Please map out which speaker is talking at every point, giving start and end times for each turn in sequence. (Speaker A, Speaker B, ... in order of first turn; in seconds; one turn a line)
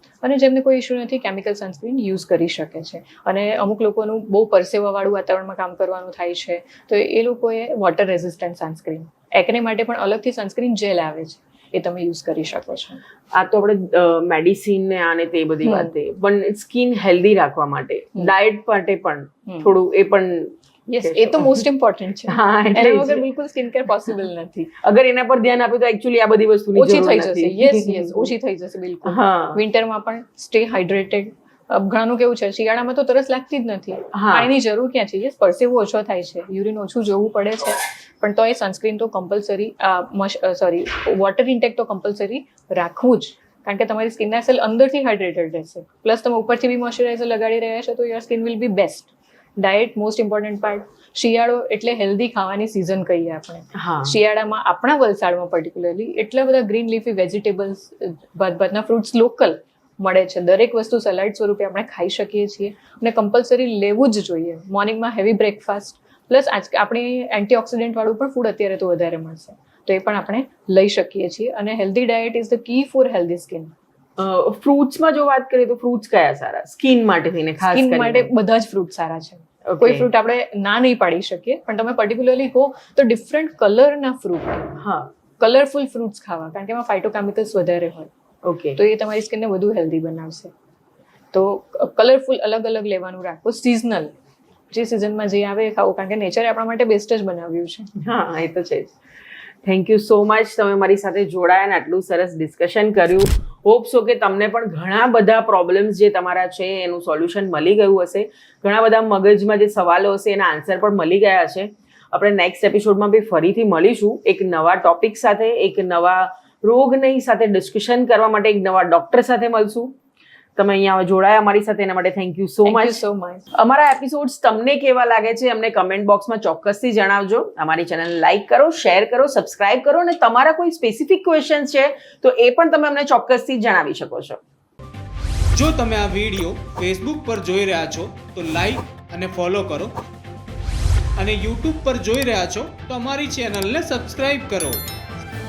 Speaker A: 0.2-13.0
Speaker B: 13.3-21.6
Speaker A: 15.6-15.9
Speaker A: 19.4-19.7
Speaker A: 20.9-24.8
Speaker B: 22.3-23.3
Speaker B: 24.8-28.3
Speaker A: 26.7-73.7
Speaker B: 29.0-29.6
Speaker B: 34.1-34.5
Speaker B: 53.7-54.2
Speaker B: 74.2-78.3
Speaker A: 77.6-84.7
Speaker B: 79.7-80.1
Speaker B: 84.8-85.1
Speaker A: 85.4-88.1
Speaker B: 88.4-88.8
Speaker A: 88.8-90.5
Speaker A: 91.3-94.1
Speaker A: 94.7-97.9
Speaker B: 98.0-98.9
Speaker B: 99.6-119.9
Speaker B: 120.5-134.4
Speaker A: 122.6-123.5
Speaker C: 135.5-139.9
Speaker C: 141.2-144.8